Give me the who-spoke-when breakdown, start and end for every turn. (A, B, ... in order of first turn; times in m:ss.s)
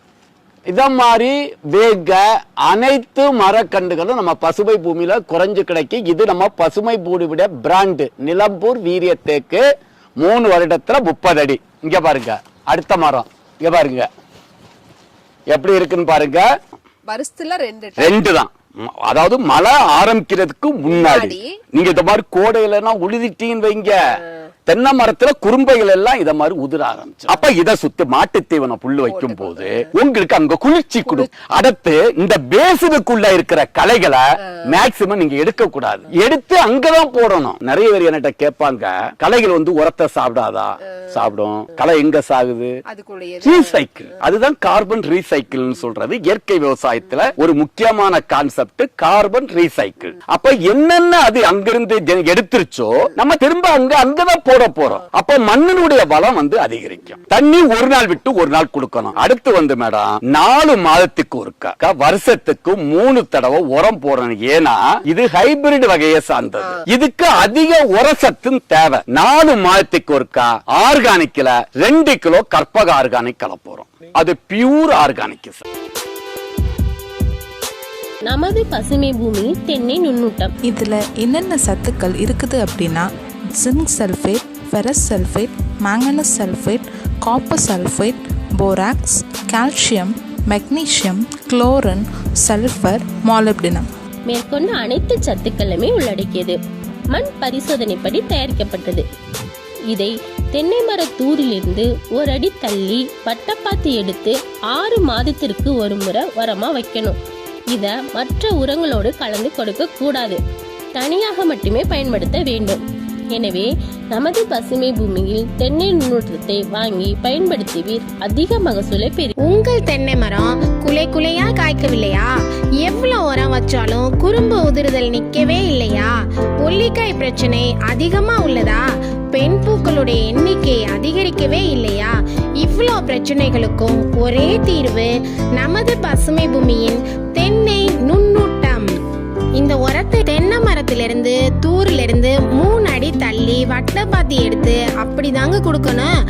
0:00.7-0:09.6 A
0:10.2-0:14.1 A
0:15.5-0:16.4 A
0:17.1-0:18.2 B
0:18.0-0:42.7 A
0:20.9-0:21.5 B
0:29.1-0:29.9 B
0:42.9-0:43.8 B
0:43.4-1:15.6 A
1:18.2-1:20.5 C
1:20.6-1:33.9 D
1:34.3-1:36.6 C
1:37.1-1:39.0 C
1:39.9-1:47.2 C
1:47.7-1:50.4 C
1:50.9-1:52.8 C
1:53.3-1:59.3 C
1:59.4-2:02.3 E
2:02.8-2:06.1 E
2:06.6-2:18.9 E
2:19.6-2:26.1 E